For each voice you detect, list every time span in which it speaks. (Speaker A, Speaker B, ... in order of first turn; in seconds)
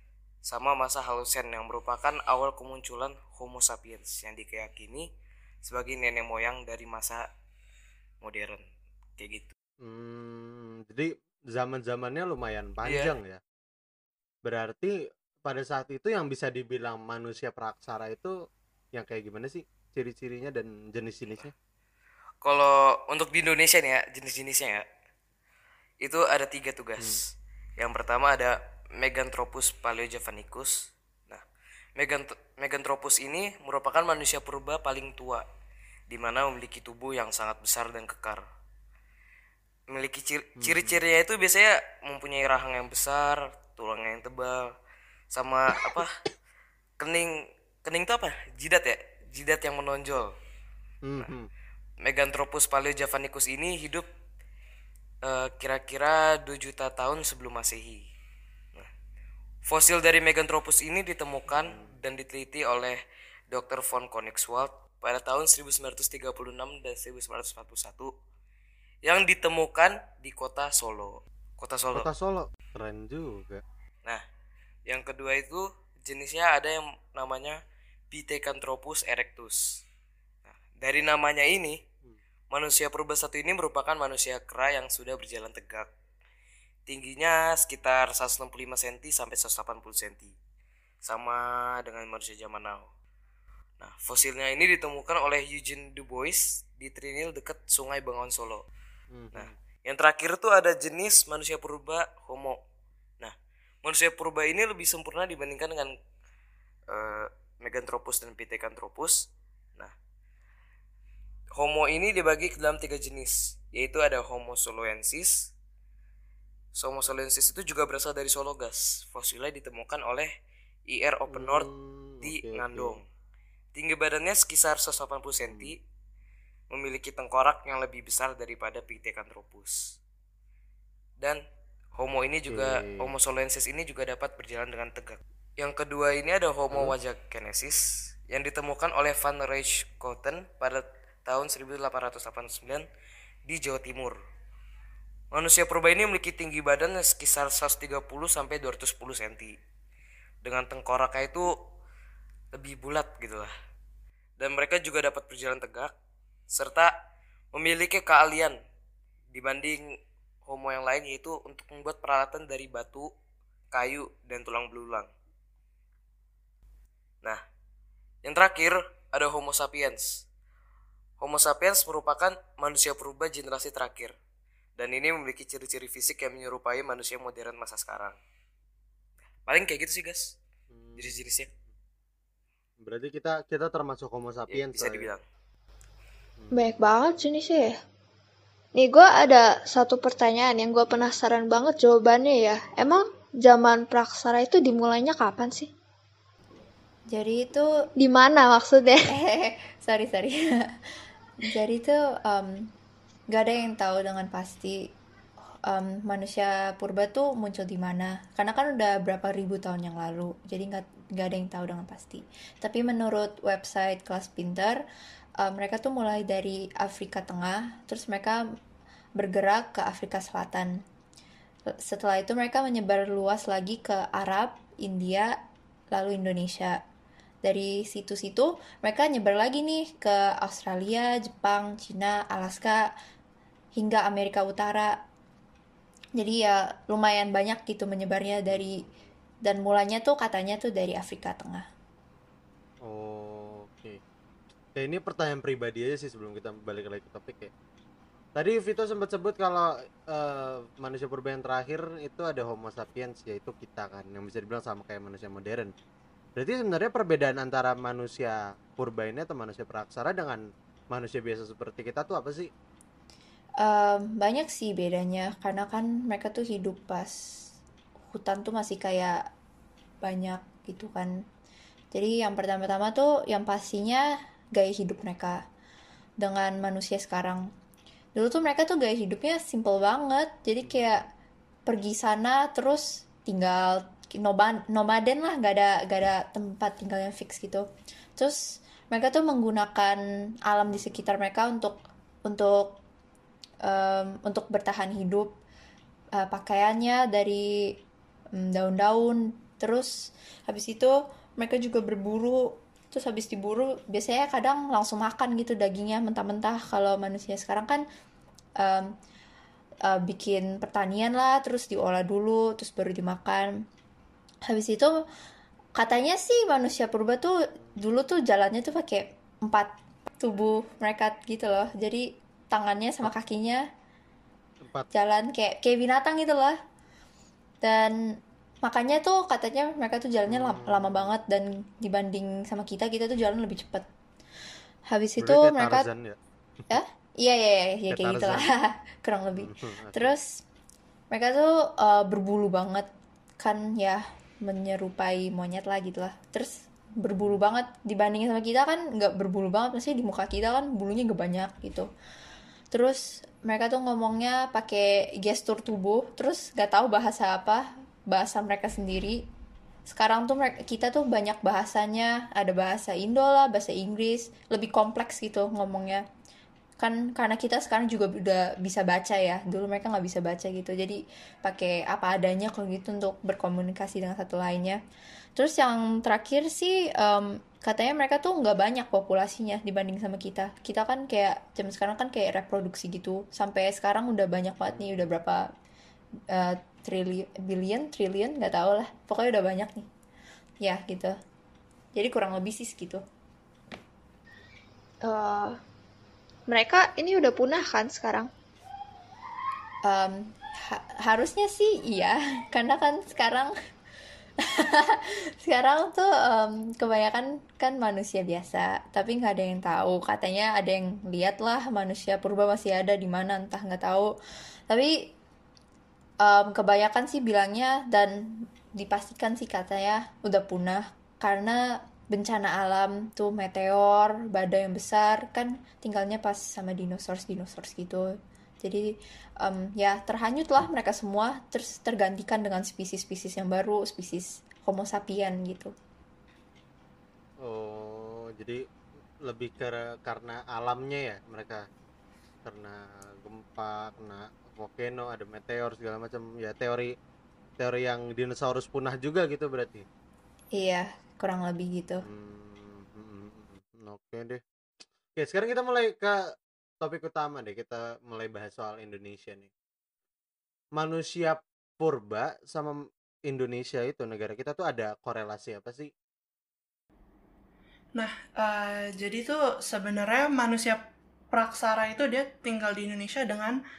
Speaker A: 0.5-5.0, 5.6-7.2, 8.2-8.6, 9.2-9.5, 12.8-13.1, 22.4-24.8, 26.0-27.2, 27.8-31.4, 32.0-35.4, 36.1-38.4, 39.9-44.6, 45.3-46.1, 47.0-47.3, 47.8-50.3, 52.0-54.0, 55.2-58.0, 59.6-63.0, 63.5-68.1, 69.0-72.1, 74.9-77.6, 78.1-79.8, 80.5-81.8, 82.5-85.9, 86.9-90.3, 91.0-92.9, 93.8-98.6, 99.3-102.6, 103.2-105.9, 106.9-109.9, 111.5-115.5, 116.8-120.3, 120.9-121.7, 122.2-123.0, 123.7-125.8, 126.7-129.9, 131.9-142.8, 143.5-144.2, 145.3-149.5, 150.4-151.5, 152.5-153.5, 154.4-155.9, 156.5-156.9, 157.5-158.5, 159.3-159.8, 160.4-163.1, 163.7-165.1, 168.2-170.2, 171.2-174.1, 174.8-178.2, 179.4-180.3, 181.0-181.5, 184.5-185.2
Speaker B: 9.8-13.4, 14.4-14.9, 15.4-18.4, 18.9-21.5, 40.6-41.0, 51.0-51.5, 61.5-61.9, 71.9-73.6, 99.1-99.5, 121.3-123.0, 125.4-125.7, 132.5-133.1, 180.7-181.1, 182.8-185.1, 238.5-238.9, 242.8-244.0, 244.8-247.5, 248.3-255.7, 256.4-262.5, 280.6-281.0, 290.7-291.1, 324.6-324.9, 330.3-331.1, 335.2-336.2, 337.9-338.5, 339.3-340.1, 347.2-347.5, 384.6-385.1, 437.4-438.6, 439.2-441.6, 442.4-446.9, 447.6-449.8, 452.0-454.4, 455.1-456.2, 456.8-459.5, 460.8-465.9
Speaker C: 186.5-187.8, 188.7-195.7, 198.0-199.1, 395.0-395.6, 396.5-398.3
Speaker D: 197.1-197.7, 199.1-200.7, 201.4-202.7, 203.3-204.9, 205.7-214.8, 215.4-218.4, 219.2-220.8, 221.8-225.3, 225.9-226.8, 227.4-232.9, 233.8-234.9, 236.2-238.8, 239.4-241.6, 263.6-267.1, 268.1-269.2, 270.0-271.1, 271.9-275.4, 276.2-277.4, 278.1-281.1, 281.6-288.4, 288.9-292.8, 293.6-295.3, 296.2-297.5, 298.4-299.9, 300.5-307.8, 308.6-308.9, 309.9-313.5, 314.5-314.9, 315.8-323.6, 324.9-326.6, 327.6-327.9, 328.6-333.9, 334.9-335.9, 336.7-340.4, 341.1-342.9, 343.4-351.9, 352.7-359.2, 359.9-366.0, 366.8-374.8, 375.4-385.4, 386.3-389.9, 390.6-391.1, 391.9-393.0, 399.9-403.5, 404.5-414.1, 416.2-428.1, 429.4-435.7, 450.6-452.0
Speaker E: 467.9-470.8, 471.3-473.6